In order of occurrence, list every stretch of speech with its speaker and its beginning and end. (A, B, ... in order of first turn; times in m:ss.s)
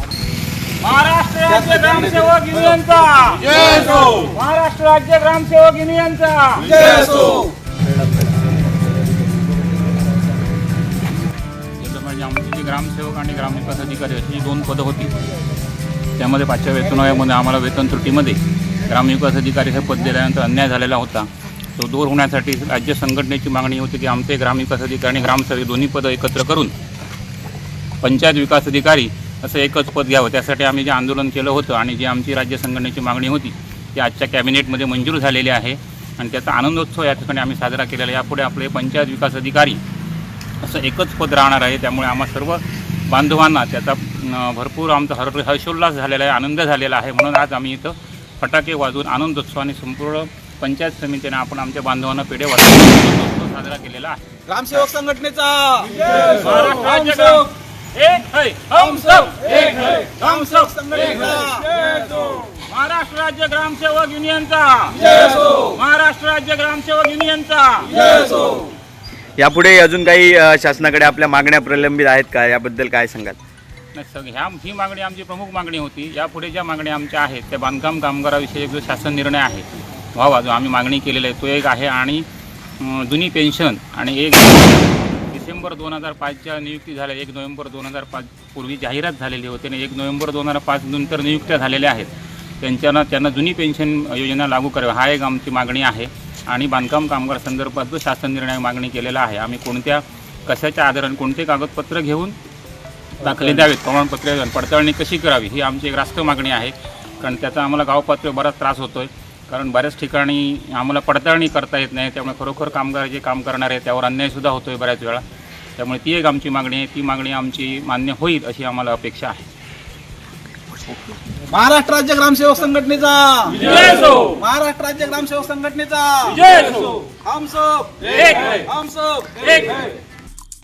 0:00.8-0:07.0 A
0:06.9-0:07.4 B
0:11.8-0:15.1 A
0:16.2-0:26.7 A
0:28.0-0:39.8 A
0:40.6-0:54.2 A
0:54.5-0:56.1 B
0:56.1-1:00.9 A
0:56.7-0:57.3 B
1:00.2-1:01.7 B
1:02.5-1:08.1 A
1:09.4-1:13.4 C
1:13.9-1:22.3 A
1:22.8-1:42.4 A
1:43.2-1:55.2 A
1:55.8-1:59.4 A
2:01.5-2:09.7 B